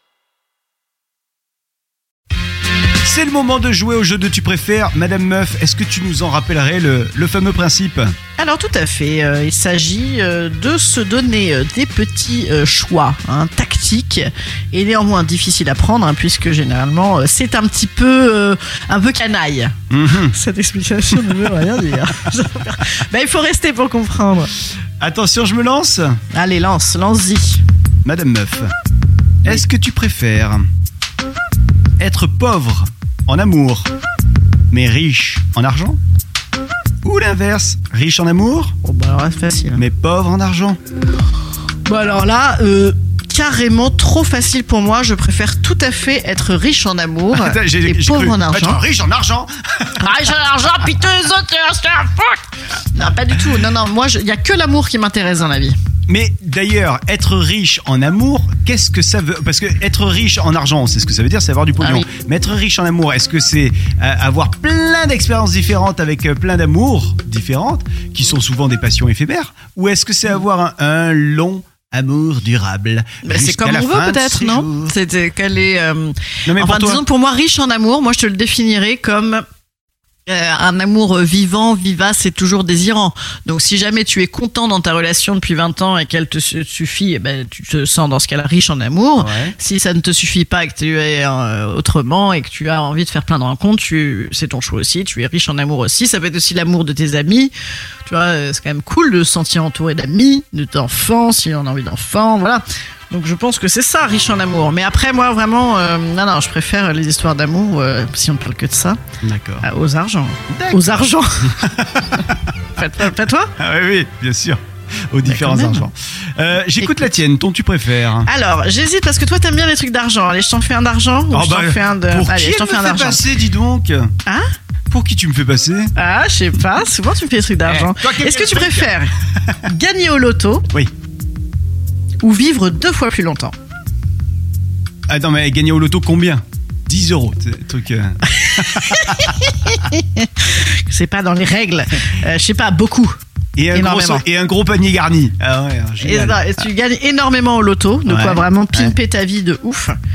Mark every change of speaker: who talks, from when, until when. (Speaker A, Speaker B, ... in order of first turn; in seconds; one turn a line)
Speaker A: 3.0-8.1
Speaker B: 8.4-24.5
Speaker A: 19.9-20.3
Speaker A: 25.0-26.2
Speaker B: 26.3-27.6
Speaker A: 28.1-28.7
Speaker A: 29.4-30.6
Speaker A: 32.0-33.9
Speaker A: 34.7-36.0
Speaker A: 37.0-38.7
Speaker B: 38.8-39.8
Speaker A: 39.8-40.8
Speaker B: 41.9-48.8
Speaker A: 47.3-50.0
Speaker B: 50.0-55.8
Speaker A: 56.1-74.9
Speaker B: 73.2-79.4
Speaker A: 76.5-77.0
Speaker B: 80.2-97.5
Speaker A: 89.2-89.5
Speaker B: 98.0-109.0
Speaker A: 109.2-109.7
Speaker B: 109.6-111.5
Speaker A: 110.5-112.3
Speaker B: 112.8-113.5
Speaker A: 113.6-114.6
Speaker A: 115.1-118.3
Speaker B: 115.2-115.9
Speaker B: 118.2-123.2
Speaker A: 121.3-124.1
Speaker A: 124.9-125.9
Speaker B: 125.9-130.7
Speaker A: 127.7-129.0
Speaker B: 132.2-133.5
Speaker A: 135.1-139.4
Speaker B: 138.4-143.2
Speaker A: 143.6-146.5
Speaker B: 143.7-144.2
Speaker B: 146.0-149.9
Speaker A: 148.1-148.9